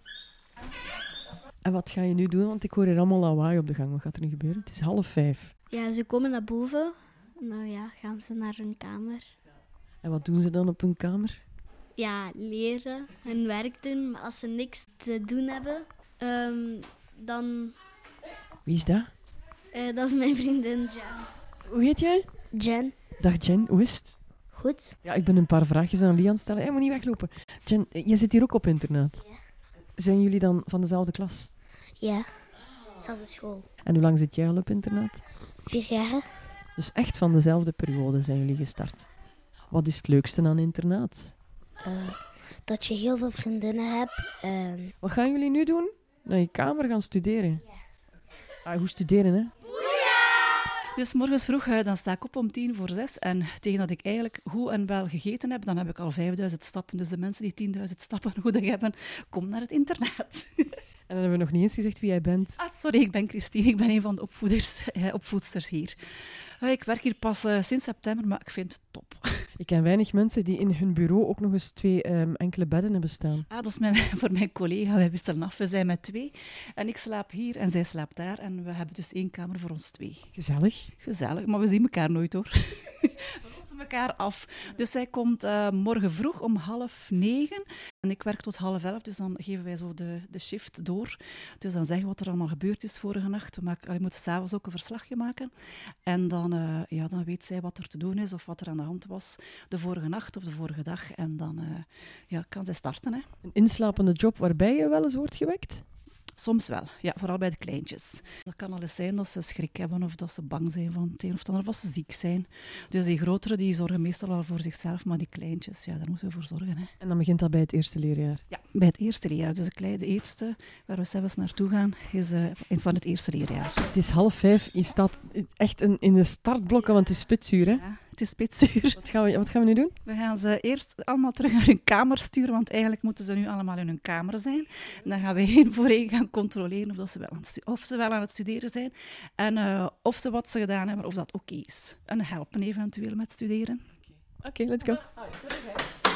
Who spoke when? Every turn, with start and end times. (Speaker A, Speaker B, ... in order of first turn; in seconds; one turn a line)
Speaker A: 1.6-5.5
Speaker B: 5.7-9.3
Speaker A: 10.0-11.4
Speaker B: 12.0-17.8
Speaker A: 18.6-19.1
Speaker B: 19.7-21.3
Speaker A: 21.6-22.3
Speaker C: 22.6-22.9
Speaker A: 23.2-24.1
Speaker C: 24.5-24.9
Speaker A: 25.0-29.2
Speaker A: 29.9-31.5
Speaker C: 32.0-32.3
Speaker C: 33.0-33.7
Speaker A: 33.8-35.2
Speaker C: 35.6-36.3
Speaker A: 36.8-39.1
Speaker A: 39.7-41.3
Speaker C: 41.8-44.9
Speaker A: 45.0-47.6
Speaker A: 48.6-49.5
Speaker D: 50.9-60.8
Speaker A: 61.1-62.6
Speaker D: 62.6-66.0
Speaker D: 66.6-69.5
Speaker A: 69.6-73.5
Speaker D: 73.5-80.3
Speaker A: 80.3-80.9
Speaker D: 81.0-95.5
Speaker D: 96.0-103.3
Speaker A: 103.4-105.8
Speaker D: 106.4-116.9
Speaker A: 117.0-118.4
Speaker D: 118.5-123.8
Speaker A: 123.9-127.8
Speaker D: 127.7-129.0
Speaker A: 128.9-129.9
Speaker D: 130.0-143.8
Speaker A: 144.4-145.0
Speaker D: 144.8-145.9